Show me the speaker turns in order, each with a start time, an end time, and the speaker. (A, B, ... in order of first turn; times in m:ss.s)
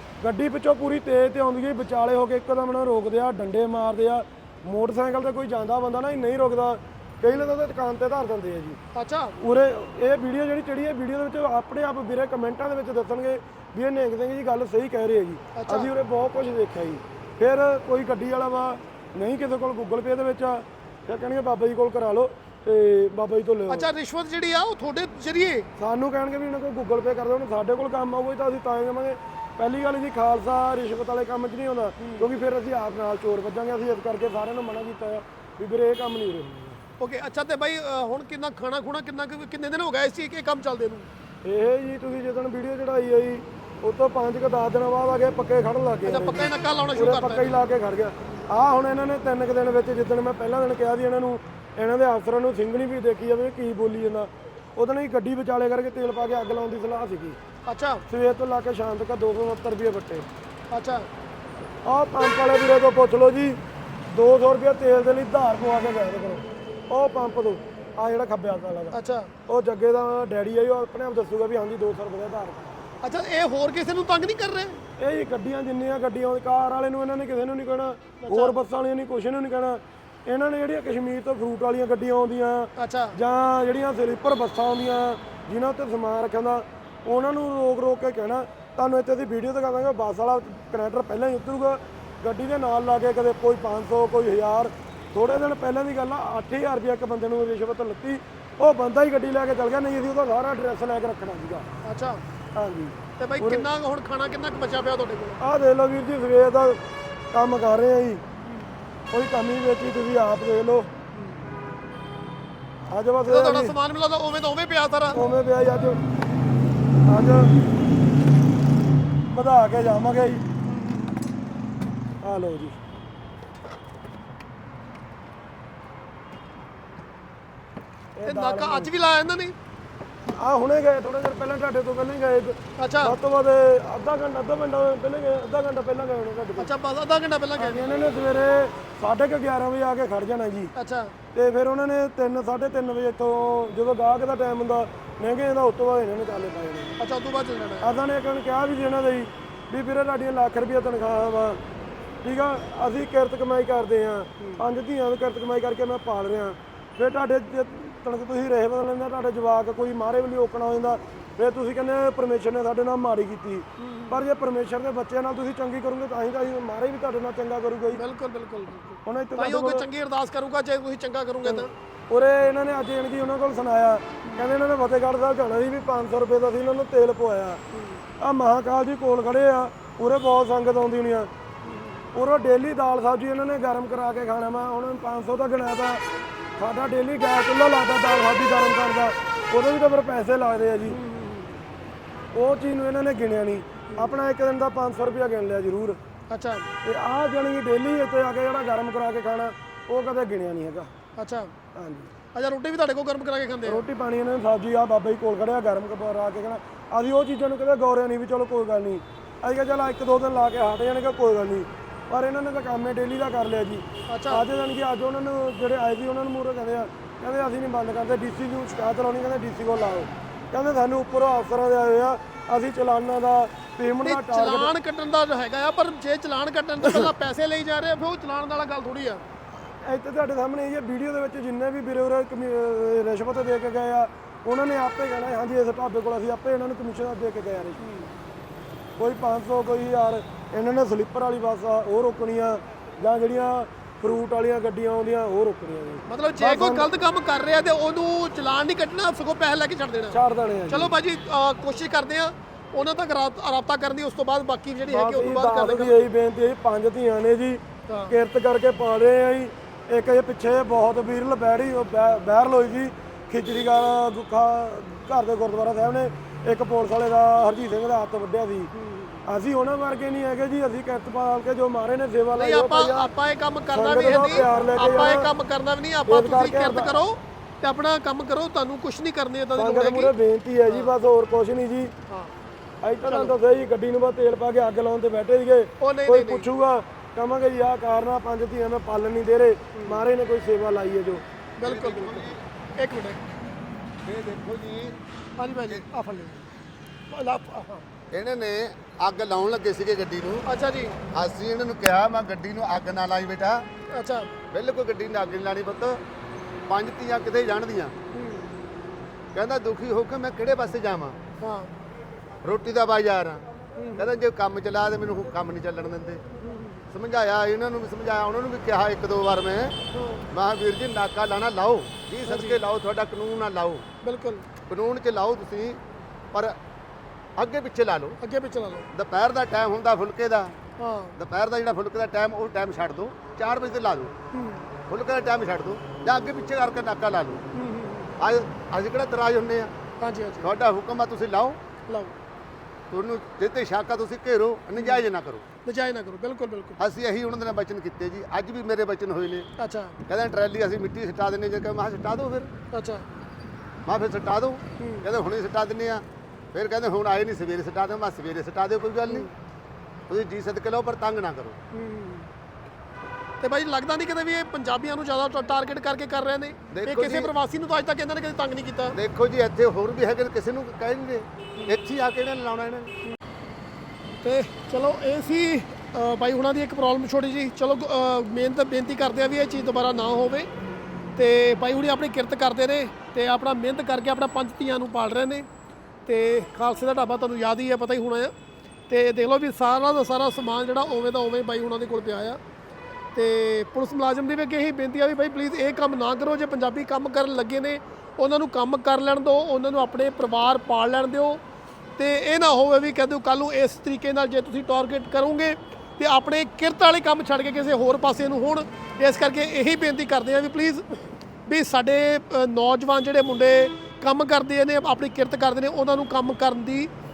0:00.2-0:08.8 A
0:08.9-0:09.4 B
0:09.4-0:23.9 A
0:15.5-0:15.9 B
0:23.7-0:25.7 B
0:25.8-0:36.8 A
0:32.0-0:32.2 B
0:37.0-0:41.1 B
0:41.4-0:57.4 A
0:46.0-0:47.6 B
0:57.6-0:58.0 B
0:58.1-1:00.3 A
1:00.7-1:01.1 B
1:01.8-1:09.0 A
1:08.9-1:09.3 B
1:09.5-1:12.8 A
1:13.0-1:14.8 B
1:15.0-1:41.7 A
1:18.2-1:18.5 B
1:22.8-1:23.2 B
1:41.8-1:42.2 B
1:42.5-1:43.7 A
1:43.2-1:45.4 B
1:45.4-1:46.8 A
1:47.3-1:48.2 A
1:49.1-1:50.9 A
1:51.1-1:51.4 B
1:52.9-1:53.8 A
1:53.2-1:55.2 B
1:55.1-1:56.0 A
1:57.0-1:57.6 A
1:59.3-2:00.4 A
2:02.2-2:02.8 A
2:08.2-2:08.9 A
2:08.2-2:09.5 B
2:10.3-2:16.7 A
2:12.8-2:13.2 B
2:16.6-2:17.8 B
2:17.6-2:20.7 A
2:20.8-2:21.1 B
2:21.3-2:27.0 A
2:27.0-2:27.9 B
2:27.8-2:31.6 A
2:32.2-2:48.0 A
2:43.8-2:44.2 B
2:47.9-2:51.7 B
2:49.0-2:49.9 A
2:51.4-2:57.6 A
2:57.7-2:58.0 B
2:58.2-3:01.3 A
3:01.6-3:02.0 B
3:02.1-3:06.0 A
3:06.6-3:11.0 A
3:10.9-3:11.6 B
3:12.3-3:16.0 A
3:16.3-3:16.7 B
3:16.8-3:20.9 A
3:21.2-3:21.5 B
3:21.7-3:22.1 A
3:22.3-3:23.8 B
3:23.6-3:44.7 A
3:34.1-3:34.4 B
3:44.0-3:49.2 B
3:49.8-3:57.8 A
3:57.8-3:58.1 B
3:59.0-4:07.0 A
4:06.1-4:16.0 B
4:10.1-4:10.9 A
4:14.8-4:28.7 A
4:17.9-4:18.1 B
4:28.7-4:29.2 B
4:29.2-4:33.1 A
4:32.4-4:40.1 B
4:33.7-4:35.3 A
4:36.1-4:37.0 A
4:39.5-4:41.9 A
4:40.7-4:40.9 B
4:42.1-4:42.3 B
4:42.8-4:51.2 A
4:43.0-4:43.3 B
4:45.8-4:46.5 B
4:49.7-4:50.0 B
4:51.6-4:53.2 B
4:51.6-4:52.4 C
4:54.0-4:55.0 C
4:55.4-4:56.4 B
4:57.1-4:57.8 B
4:58.1-5:00.4 C
5:00.4-5:01.0 B
5:01.1-5:03.6 C
5:03.9-5:04.3 B
5:04.5-5:06.0 C
5:06.7-5:07.9 C
5:08.1-5:08.5 B
5:09.3-5:11.2 C
5:11.4-5:11.7 B
5:12.4-5:16.2 C
5:13.8-5:14.1 B
5:16.4-5:16.8 B
5:16.9-5:19.8 C
5:19.9-5:20.2 B
5:20.3-5:23.8 C
5:22.2-5:22.6 B
5:24.0-5:24.4 B
5:24.7-5:25.8 C
5:27.4-5:28.2 C
5:28.2-5:28.9 B
5:28.9-5:30.6 C
5:30.8-5:31.2 B
5:31.2-5:34.1 C
5:34.3-5:34.7 B
5:34.9-5:37.4 C
5:37.5-5:38.1 B
5:38.2-5:39.7 C
5:40.0-5:40.5 B
5:40.4-5:41.6 C
5:41.9-5:42.1 B
5:42.9-5:45.4 C
5:44.8-5:45.0 B
5:45.6-5:46.8 B
5:46.8-5:49.5 C
5:49.6-5:50.0 B
5:50.1-5:52.5 C
5:52.7-5:53.0 B
5:53.8-5:59.3 C
5:54.8-5:55.0 B
5:59.0-5:59.3 B
6:00.1-6:01.6 C
6:01.7-6:02.3 B
6:03.4-6:09.0 B
6:06.7-6:07.3 C
6:08.9-6:12.9 C
6:14.2-6:20.5 B
6:21.2-6:25.4 B
6:26.0-6:28.3 B
6:28.9-6:32.4 B
6:33.1-6:41.4 B
6:42.0-6:50.8 B
6:51.5-6:56.9 B